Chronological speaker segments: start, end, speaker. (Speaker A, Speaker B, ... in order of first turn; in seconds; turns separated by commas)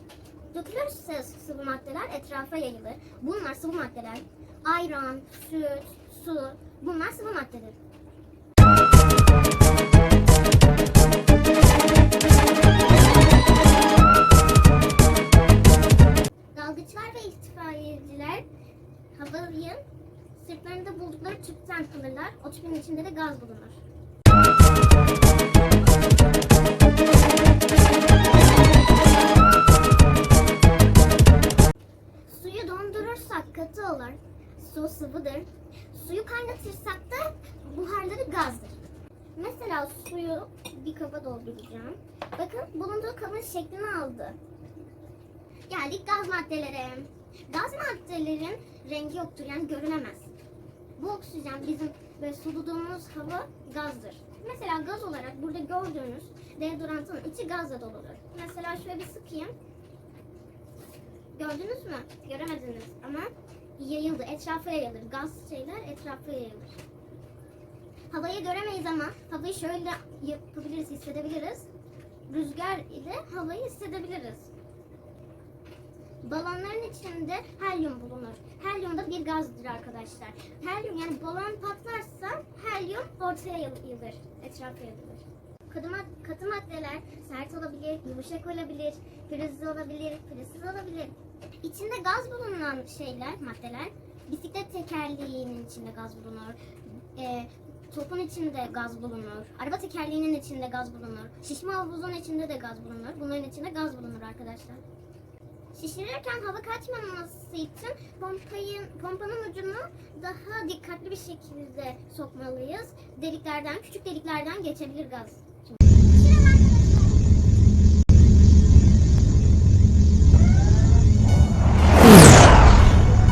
Speaker A: 0.5-7.8, Speaker A: 16.5-18.4, Speaker A: 19.1-19.8, Speaker A: 20.3-23.8, Speaker A: 32.3-38.8, Speaker A: 39.3-44.4, Speaker A: 45.7-50.3, Speaker A: 51.0-59.5, Speaker A: 61.3-66.8, Speaker A: 68.1-71.7, Speaker A: 72.3-74.5, Speaker A: 76.2-104.8, Speaker A: 105.7-117.2